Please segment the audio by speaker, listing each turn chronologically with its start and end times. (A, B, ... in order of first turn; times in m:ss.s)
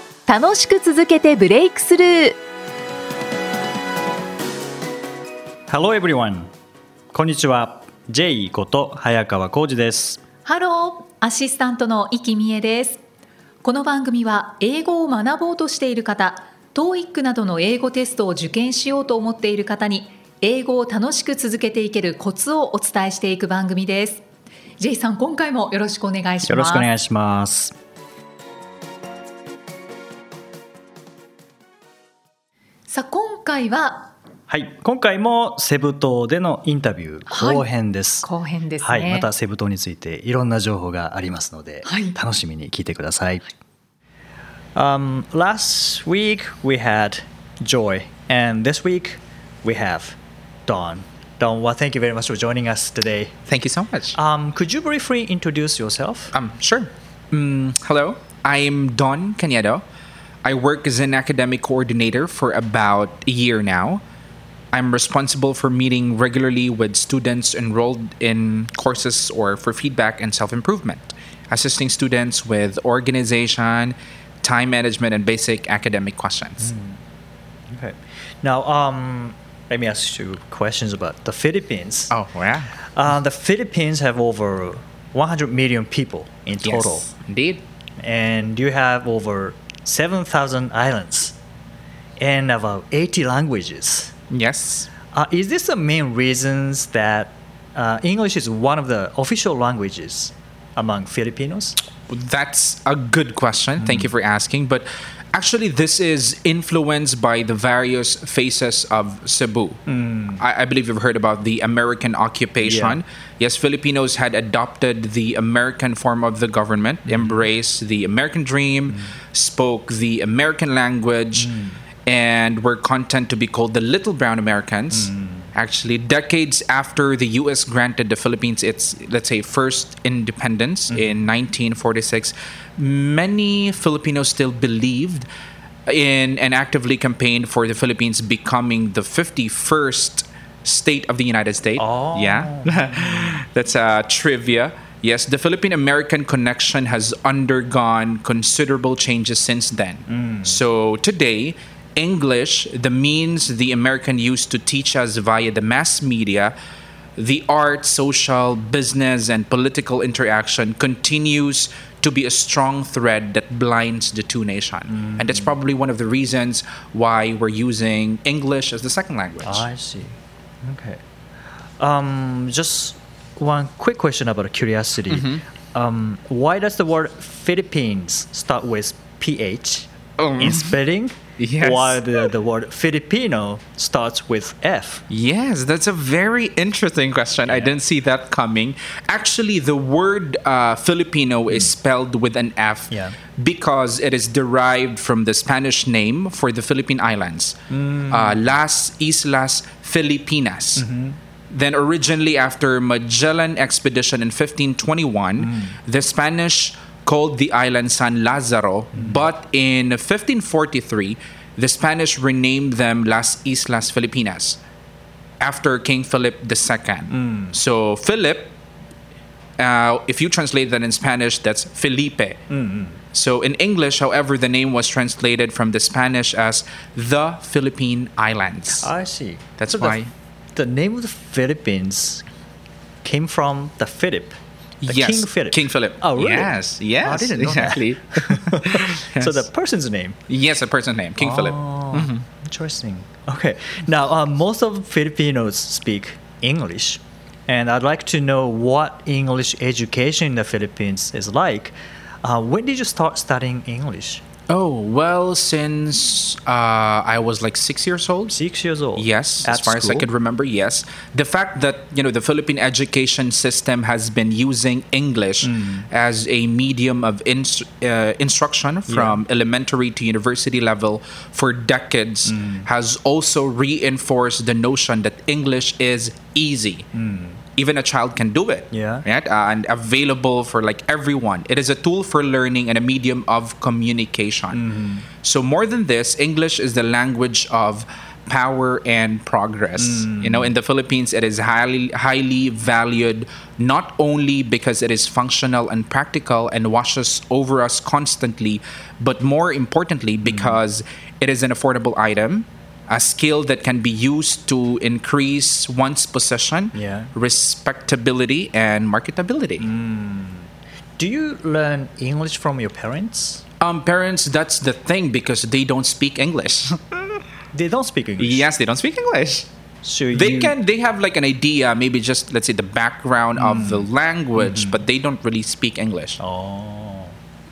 0:00.3-0:02.4 A
0:05.7-0:06.5 B
0:07.1-0:10.2 B
0:10.4-0:13.0 A
0:13.6-0:24.2 A
0:24.8-0:26.9 A
0:26.4-0:27.8 B
0:32.9-0:34.1 A
0:34.5-0:38.3 B
0:37.3-0:37.6 A
0:38.2-0:39.3 A
0:38.8-0:43.5 B
0:41.8-0:42.2 A
0:44.7-0:53.3 B
0:53.5-0:54.2 C
0:54.1-0:56.3 B
0:56.3-0:59.8 C
1:00.4-1:04.0 C
1:04.7-1:16.7 C
1:16.6-1:17.0 B
1:17.7-1:22.1 B
1:22.1-1:22.7 C
1:22.8-1:27.1 B
1:26.6-1:27.6 C
1:28.0-1:31.4 B
1:32.2-1:34.1 B
1:34.3-1:34.9 C
1:35.1-1:41.7 B
1:42.1-1:49.8 C
1:43.8-1:44.1 B
1:49.9-1:50.4 B
1:50.4-2:01.5 C
1:52.6-1:53.0 B
1:57.1-1:57.4 B
1:58.9-1:59.2 B
2:01.4-2:01.8 B
2:02.0-2:15.3 C
2:04.9-2:05.5 B
2:10.9-2:11.2 B
2:15.9-2:36.5 C
2:21.8-2:23.4 B
2:30.1-2:30.6 B
2:37.2-2:49.7 C
2:44.9-2:45.5 B
2:49.4-2:51.0 B
2:51.8-3:05.0 B
2:55.1-2:55.4 C
3:00.2-3:00.8 C
3:01.4-3:02.2 C
3:05.1-3:17.6 C
3:07.4-3:07.7 B
3:11.5-3:11.7 B
3:12.9-3:13.2 B
3:17.7-3:18.5 B
3:18.1-3:20.8 C
3:20.8-3:21.2 B
3:21.5-3:34.6 C
3:25.4-3:25.8 B
3:28.9-3:29.3 B
3:35.4-3:38.5 C
3:37.1-3:37.6 B
3:39.6-3:42.4 C
3:42.5-3:43.0 B
3:43.1-3:48.9 C
3:48.8-3:52.2 B
3:49.6-3:50.1 C
3:53.0-4:00.2 B
3:54.8-3:59.4 C
4:00.3-4:02.2 C
4:01.2-4:14.2 B
4:14.5-4:18.4 C
4:18.3-4:20.1 B
4:19.0-4:36.9 C
4:25.4-4:25.9 B
4:28.9-4:29.2 B
4:32.2-4:32.7 B
4:36.9-4:37.4 B
4:37.6-4:44.6 C
4:38.7-4:39.0 B
4:44.5-4:45.1 B
4:45.2-5:09.7 C
4:49.8-4:50.5 B
5:00.2-5:00.6 B
5:06.7-5:07.1 B
5:09.6-5:13.4 B
5:13.6-5:17.2 C
5:17.5-5:18.5 B
5:18.2-5:19.5 C
5:19.8-5:20.6 B
5:20.1-5:26.2 C
5:23.4-5:24.8 B
5:26.2-5:27.2 B